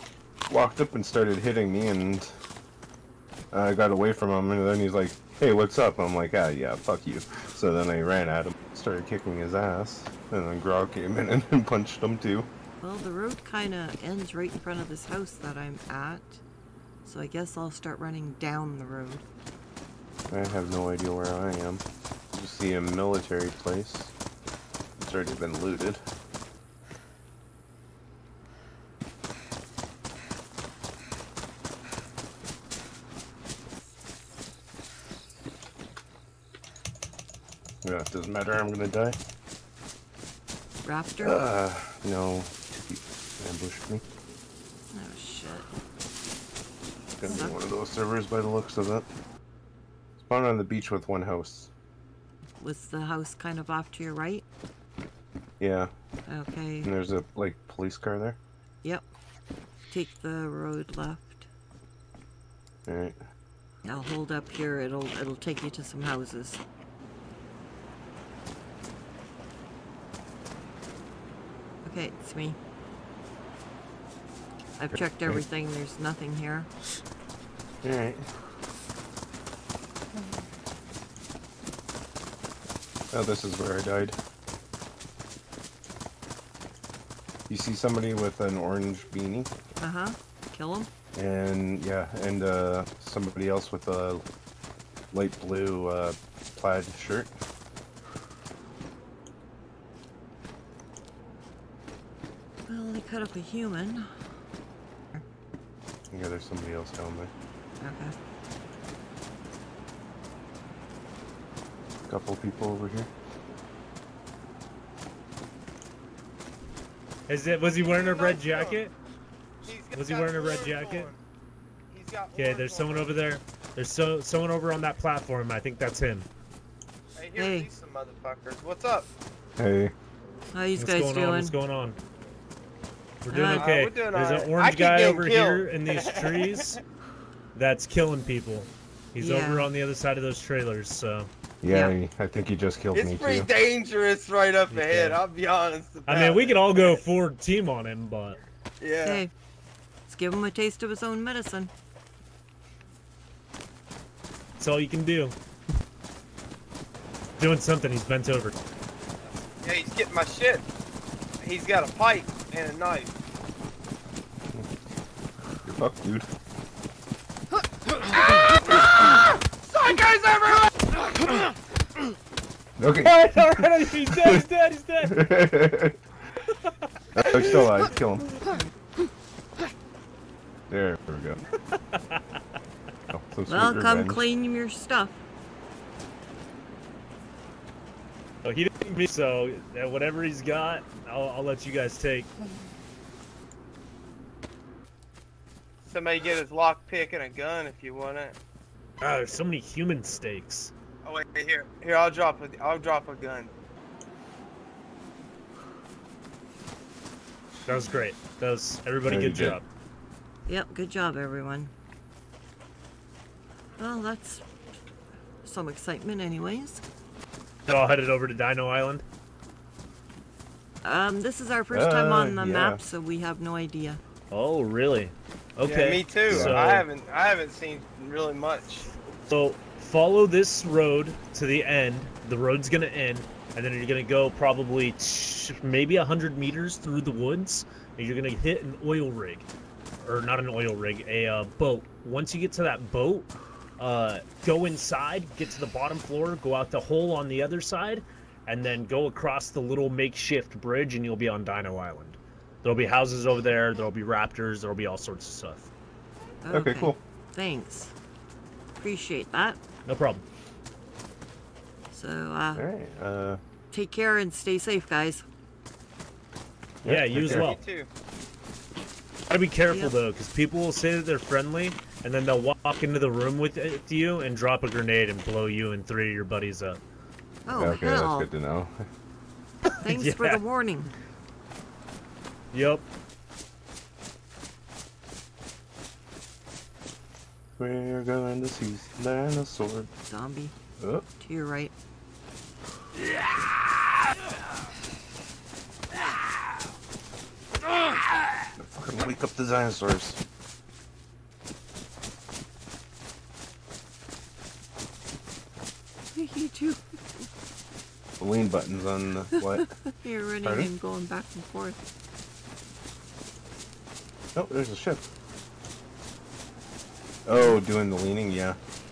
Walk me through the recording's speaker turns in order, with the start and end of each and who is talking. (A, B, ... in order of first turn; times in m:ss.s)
0:00.5-0:02.3 A
0:03.5-0:12.5 A
0:12.8-0:16.4 B
0:17.0-0:19.2 B
0:20.3-0:24.1 A
0:25.0-0:26.0 A
0:37.8-0:39.2 A
0:40.8-0:41.4 B
0:41.2-0:44.0 A
0:44.9-0:45.7 B
0:47.2-0:49.1 A
0:47.2-0:47.6 B
0:50.2-0:51.7 A
0:52.6-0:54.4 B
0:55.6-0:55.9 A
0:56.3-0:56.9 B
0:56.8-0:58.4 A
0:59.9-1:01.5 B
1:02.8-1:03.2 A
1:03.8-1:06.6 B
1:11.8-1:12.6 B
1:14.8-1:16.7 B
1:14.9-1:15.4 A
1:17.8-1:18.3 A
1:23.1-1:24.2 A
1:27.5-1:29.5 A
1:29.8-1:30.9 B
1:31.1-1:34.2 A
1:35.1-1:37.3 A
1:42.7-1:44.1 B
1:46.1-1:47.3 A
1:47.8-1:48.1 B
1:52.1-1:53.1 A
1:57.3-1:58.9 C
1:57.7-1:58.8 D
1:59.6-2:01.2 D
1:59.9-2:01.1 C
2:01.9-2:03.1 D
2:02.4-2:06.3 C
2:07.1-2:09.1 D
2:07.4-2:07.7 B
2:09.6-2:09.9 A
2:10.5-2:11.5 B
2:10.8-2:12.0 C
2:13.2-2:16.8 C
2:13.3-2:13.7 B
2:13.5-2:16.8 D
2:17.5-2:21.3 C
2:19.2-2:19.7 B
2:21.6-2:23.5 A
2:21.7-2:22.0 B
2:22.9-2:27.0 D
2:24.7-2:25.2 C
2:26.0-2:28.4 C
2:28.8-2:29.2 D
2:29.0-2:29.3 B
2:30.1-2:31.7 B
2:34.6-2:35.4 C
2:37.4-2:38.5 C
2:39.5-2:40.6 D
2:41.4-2:43.1 D
2:45.6-2:46.3 A
2:48.3-2:50.8 D
2:52.8-2:53.5 A
2:53.0-2:55.2 C
2:54.0-2:54.4 A
2:55.1-2:56.0 A
2:56.5-2:57.6 C
2:57.1-2:58.4 A
3:00.7-3:01.4 A
3:01.7-3:02.4 C
3:03.1-3:04.2 A
3:03.5-3:05.2 B
3:08.4-3:12.3 C
3:15.8-3:18.4 D
3:19.0-3:20.7 C
3:21.0-3:23.5 D
3:27.6-3:29.6 C
3:29.0-3:29.6 A
3:30.5-3:31.7 B
3:33.8-3:34.4 B
3:35.4-3:36.8 B
3:37.6-3:39.0 C
3:40.8-3:44.0 B
3:41.7-3:42.8 A
3:44.3-3:46.8 C
3:45.6-3:48.9 D
3:46.3-3:46.6 A
3:49.2-3:59.5 C
4:00.0-4:15.7 C
4:16.4-4:17.9 B
4:16.5-4:17.0 A
4:18.8-4:19.6 B
4:19.8-4:20.2 C
4:21.9-4:22.6 B
4:22.5-4:23.4 A
4:23.7-4:25.2 B
4:26.8-4:27.6 A
4:26.8-4:27.6 C
4:27.2-4:27.9 D
4:29.3-4:36.8 C
4:29.7-4:29.9 B
4:37.4-4:38.3 B
4:37.5-4:38.8 A
4:39.8-4:40.4 C
4:39.8-4:40.9 B
4:42.5-4:42.8 C
4:47.6-4:49.9 A
4:50.1-4:50.5 B
4:50.8-4:51.0 A
4:51.2-4:51.7 B
4:58.6-5:00.2 A
5:06.1-5:06.8 B
5:08.2-5:09.7 A
5:09.3-5:11.8 B
5:10.4-5:10.7 A
5:14.3-5:15.0 A
5:17.2-5:18.6 A